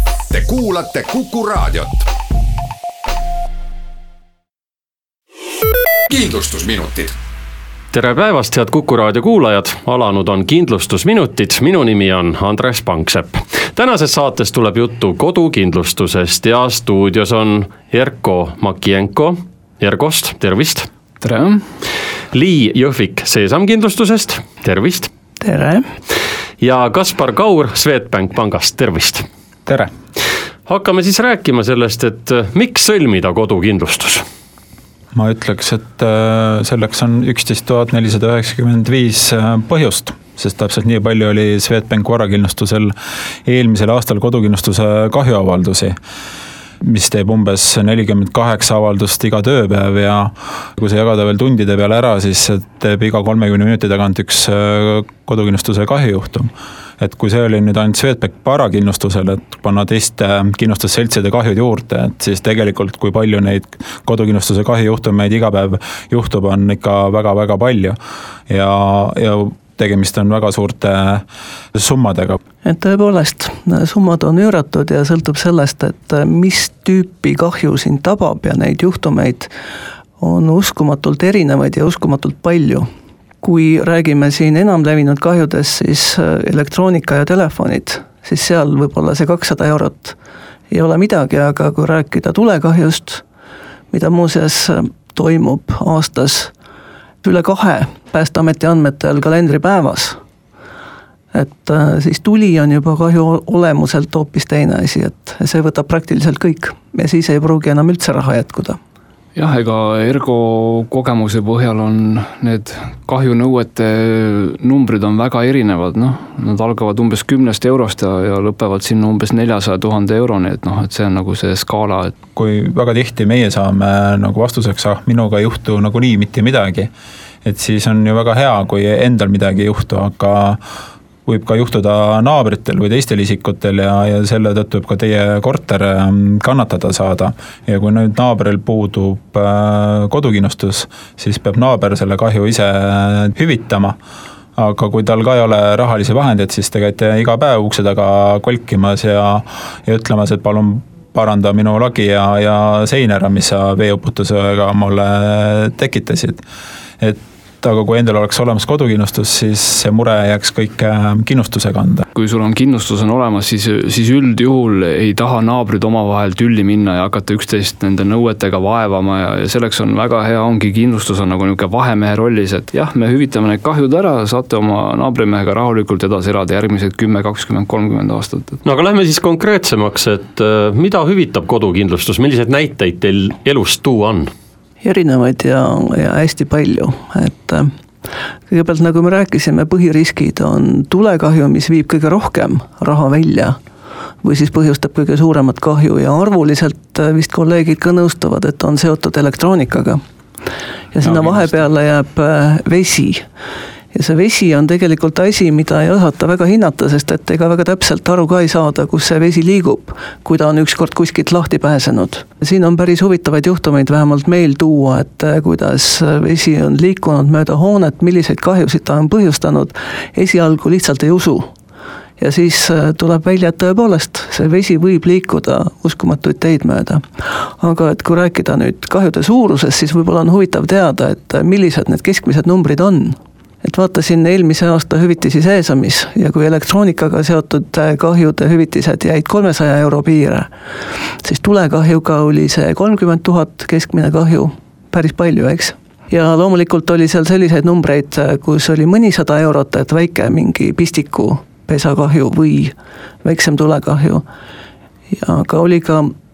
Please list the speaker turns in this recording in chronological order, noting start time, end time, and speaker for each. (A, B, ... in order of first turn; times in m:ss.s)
0:00.3-0:02.1 A
0:06.1-0:07.1 A
0:07.9-0:20.9 B
0:21.2-0:21.6 C
0:22.3-0:25.1 B
0:25.4-0:25.8 D
0:26.6-0:29.2 B
0:30.7-0:34.2 B
0:35.1-0:42.9 E
0:43.4-0:46.0 E
0:46.8-0:56.5 E
0:57.0-1:08.0 E
1:08.5-1:11.2 E
1:11.8-1:12.4 E
1:12.6-1:19.5 D
1:20.2-1:22.8 D
1:23.4-1:30.2 D
1:30.7-1:33.2 D
1:33.9-1:36.5 D
1:37.2-1:40.2 D
1:41.3-1:48.8 D
1:49.4-2:02.1 C
2:02.3-2:06.9 E
2:07.4-2:10.6 E
2:11.2-2:24.0 E
2:24.6-2:36.4 E
2:37.0-2:42.0 E
2:42.1-2:58.6 C
2:58.6-3:04.3 B
3:04.8-3:07.7 D
3:08.5-3:13.6 D
3:14.2-3:20.0 D
3:20.9-3:23.2 D
3:21.0-3:21.7 C
3:23.9-3:41.5 D
3:42.2-3:47.0 D
3:47.6-4:00.5 D
4:01.2-4:14.2 D
4:15.1-4:16.1 D